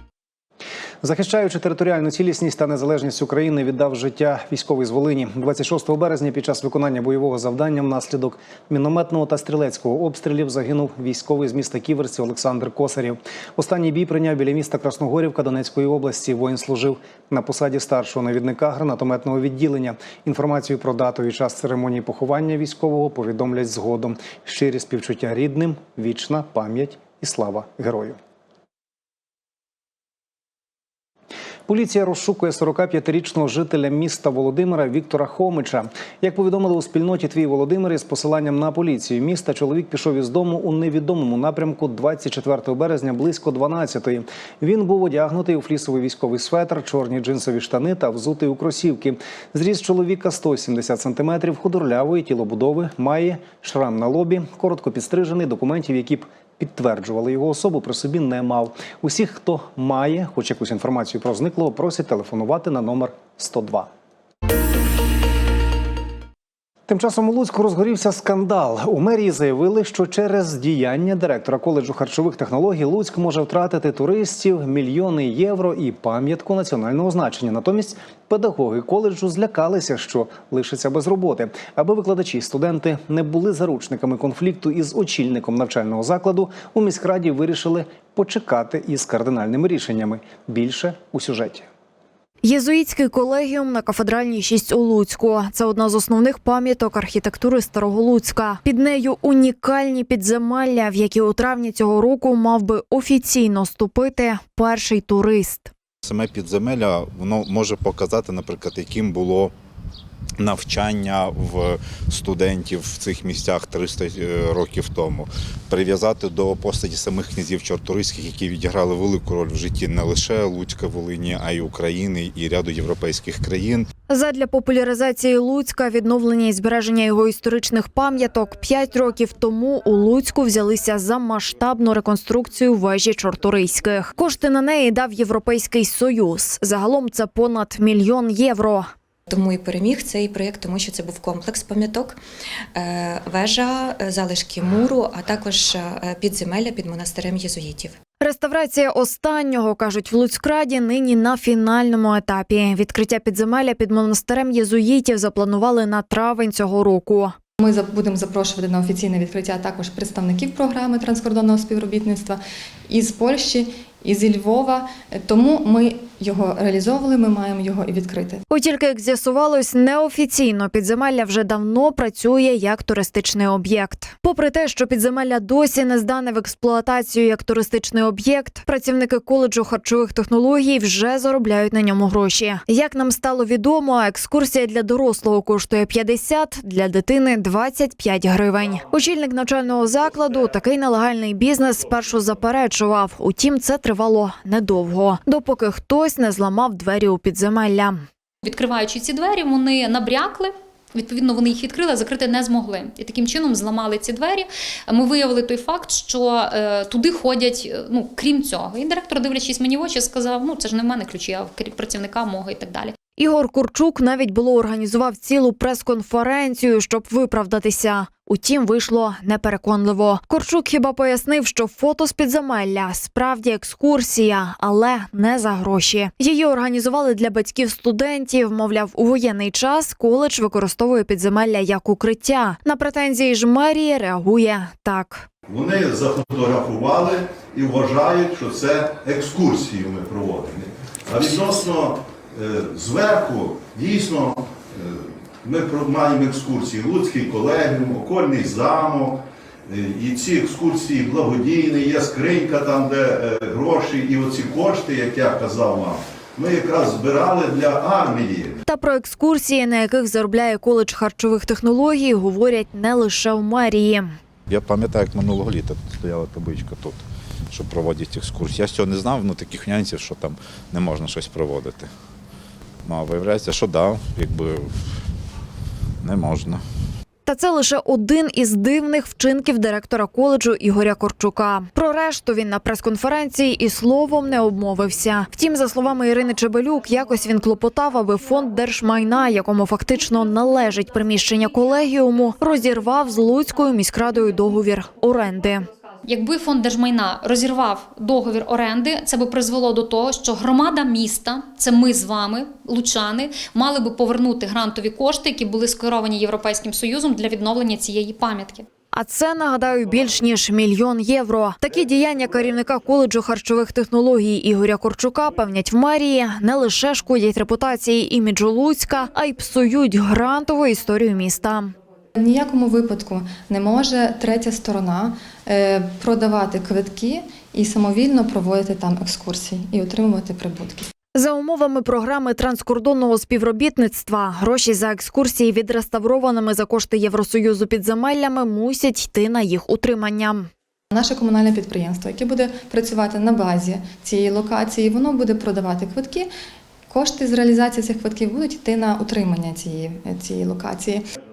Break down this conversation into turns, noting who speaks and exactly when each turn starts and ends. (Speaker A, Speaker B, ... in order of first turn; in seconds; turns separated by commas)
Speaker A: 1.0-28.2, Speaker A: 31.7-63.9, Speaker A: 66.9-91.7, Speaker B: 92.4-105.7, Speaker C: 106.0-109.5, Speaker C: 110.4-123.9, Speaker B: 124.1-138.8, Speaker D: 139.3-142.2, Speaker D: 142.7-147.9, Speaker B: 148.2-157.3, Speaker E: 157.6-168.4, Speaker B: 168.5-198.0, Speaker F: 198.4-212.9, Speaker B: 213.2-235.3, Speaker G: 235.5-244.9, Speaker G: 245.4-249.2, Speaker G: 249.7-258.6, Speaker B: 258.7-264.1, Speaker C: 264.5-271.9, Speaker C: 272.8-274.7, Speaker C: 276.0-276.6, Speaker B: 277.2-295.7, Speaker F: 296.0-308.6, Speaker B: 308.9-321.7, Speaker E: 322.1-330.9, Speaker B: 331.1-340.5, Speaker E: 340.9-346.3, Speaker E: 346.9-351.0